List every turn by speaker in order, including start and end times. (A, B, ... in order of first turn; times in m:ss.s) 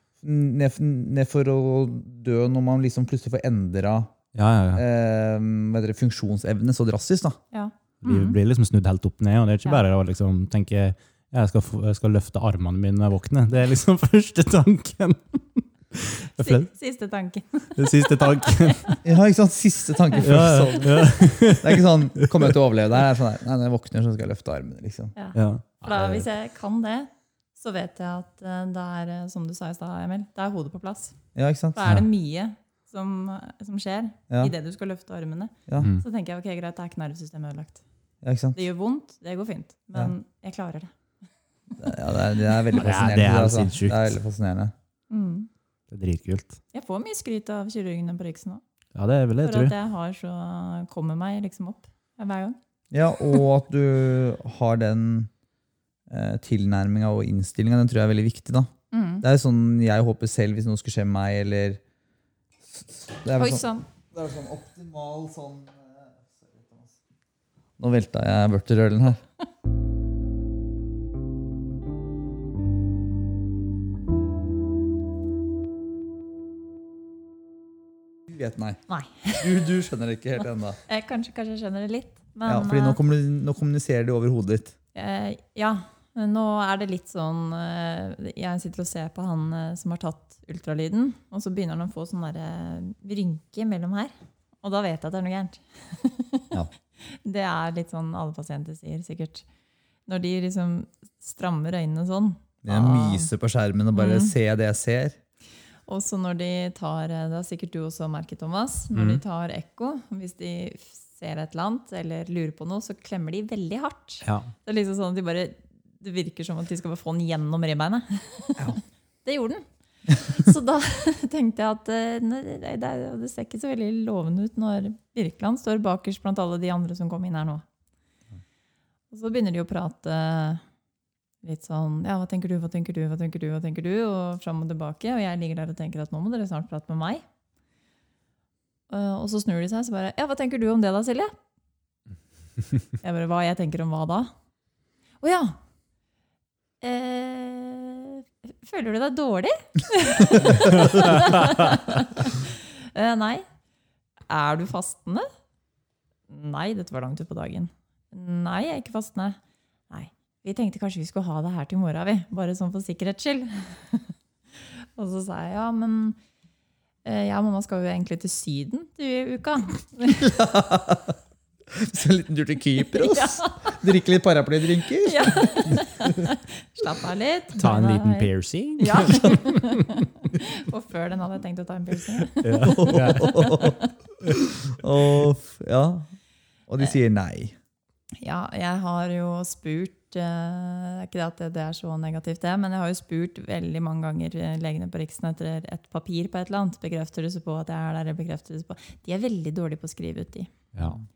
0:00.2-0:04.1 A
0:04.3-0:04.8 B
0:04.7-0:07.4 A
0:07.5-0:08.4 C
0:08.0-0:16.7 B
0:16.4-0:19.0 C
0:17.8-0:18.8 B
0:19.0-0:25.1 A
0:20.2-0:22.3 B
0:25.1-0:31.2 C
0:25.3-0:26.2 B
0:31.3-0:31.9 A
0:31.7-0:37.8 C
0:38.2-0:38.6 A
0:38.5-0:40.9 C
0:41.8-0:44.7 A
0:42.8-0:44.1 B
0:45.1-0:45.5 C
0:45.9-0:46.6 B
0:46.7-0:48.6 C
0:48.9-0:49.7 B
0:49.4-0:52.6 C
0:52.9-0:55.3 A
0:56.1-1:01.8 A
0:58.9-0:59.2 C
1:02.6-1:07.0 A
1:03.3-1:03.8 C
1:07.8-1:09.2 A
1:18.3-1:18.8 A
1:18.9-1:19.5 C
1:19.3-1:20.8 A
1:20.9-1:23.0 C
1:22.4-1:24.7 A
1:24.9-1:36.5 C
1:37.0-1:39.5 C
1:40.1-1:43.3 C
1:42.6-1:45.2 A
1:43.9-1:44.3 C
1:45.9-2:07.6 C
1:48.9-1:49.2 B
1:54.2-1:54.5 B
2:09.1-2:10.6 C
2:11.4-2:17.2 C
2:18.9-2:21.4 C
2:23.0-2:24.3 C
2:25.2-2:25.6 C
2:26.8-2:33.4 C
2:34.3-2:35.3 C
2:36.3-2:39.4 C
2:39.9-2:46.2 C
2:47.0-2:50.3 C
2:50.2-2:51.2 A
2:51.7-2:55.8 A
2:53.0-2:53.8 C
2:55.0-3:03.9 C
2:57.6-2:59.7 B
3:02.4-3:03.6 B
3:02.6-3:03.8 A
3:04.3-3:06.1 A
3:06.7-3:07.5 A
3:08.2-3:20.5 C
3:20.7-3:21.0 B